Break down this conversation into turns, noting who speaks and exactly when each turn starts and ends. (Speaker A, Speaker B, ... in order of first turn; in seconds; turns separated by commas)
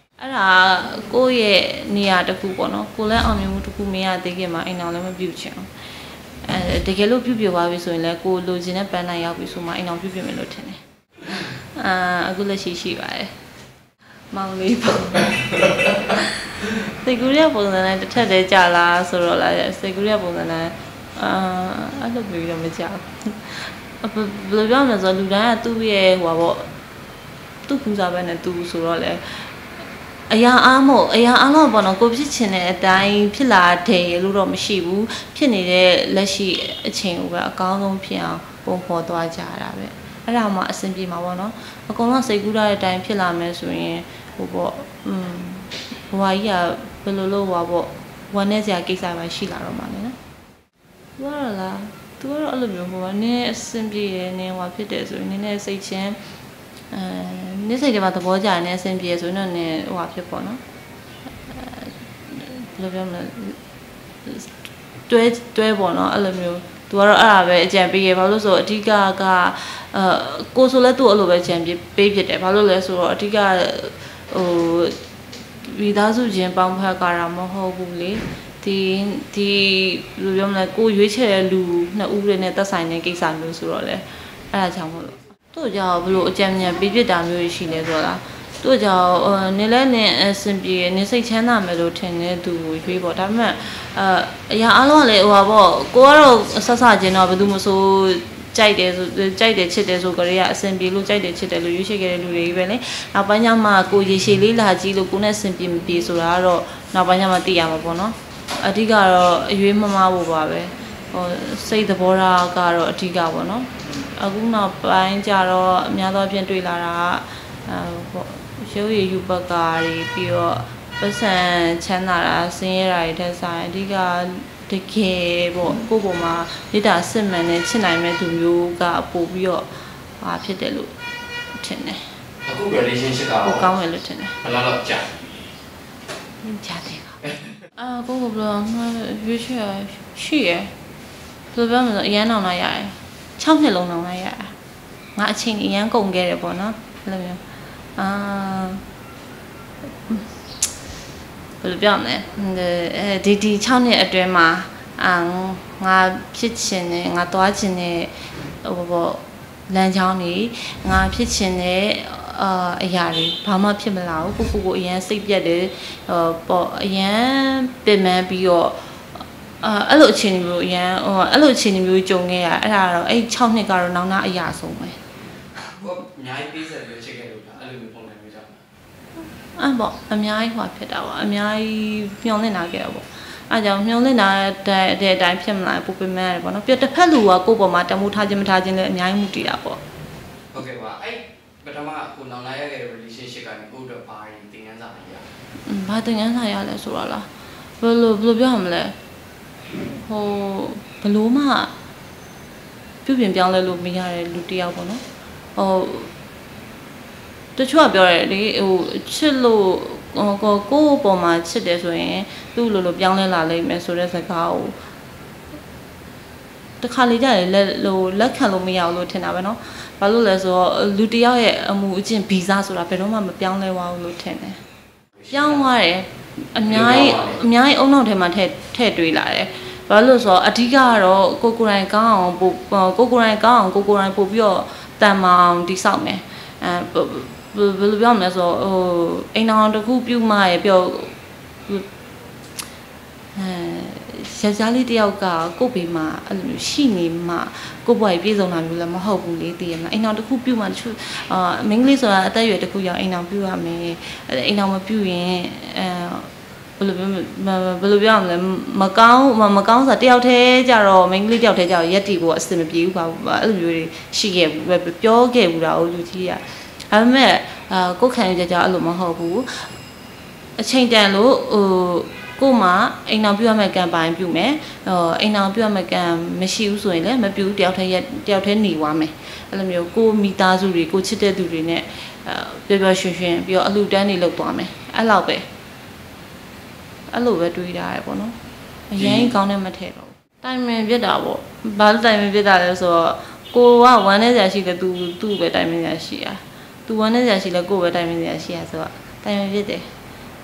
Speaker A: 0.2-5.7, Speaker A: 6.4-13.3, Speaker A: 14.3-26.7, Speaker A: 27.7-29.6, Speaker A: 30.3-50.2, Speaker A: 51.2-56.2, Speaker A: 56.9-60.6, Speaker A: 61.3-63.6, Speaker A: 64.2-64.5, Speaker A: 65.1-75.0, Speaker A: 75.6-129.7, Speaker A: 130.2-130.9, Speaker A: 131.5-132.1, Speaker B: 132.4-133.7, Speaker A: 133.4-134.4, Speaker B: 134.4-135.1, Speaker A: 136.4-140.7, Speaker A: 141.5-144.5, Speaker A: 145.2-147.4, Speaker A: 148.0-148.8, Speaker A: 150.1-150.4, Speaker A: 151.6-175.0, Speaker B: 175.8-178.6, Speaker A: 179.6-189.8, Speaker B: 190.5-195.3, Speaker A: 195.6-197.3, Speaker A: 197.8-198.9, Speaker A: 199.8-201.7, Speaker A: 203.1-205.0, Speaker A: 205.6-206.1, Speaker A: 207.6-214.8, Speaker A: 216.8-224.6, Speaker B: 225.2-225.6, Speaker A: 225.3-241.1, Speaker B: 226.6-227.4, Speaker A: 243.3-269.7, Speaker A: 270.6-285.5, Speaker A: 287.1-288.4, Speaker A: 288.9-299.9, Speaker B: 289.0-289.3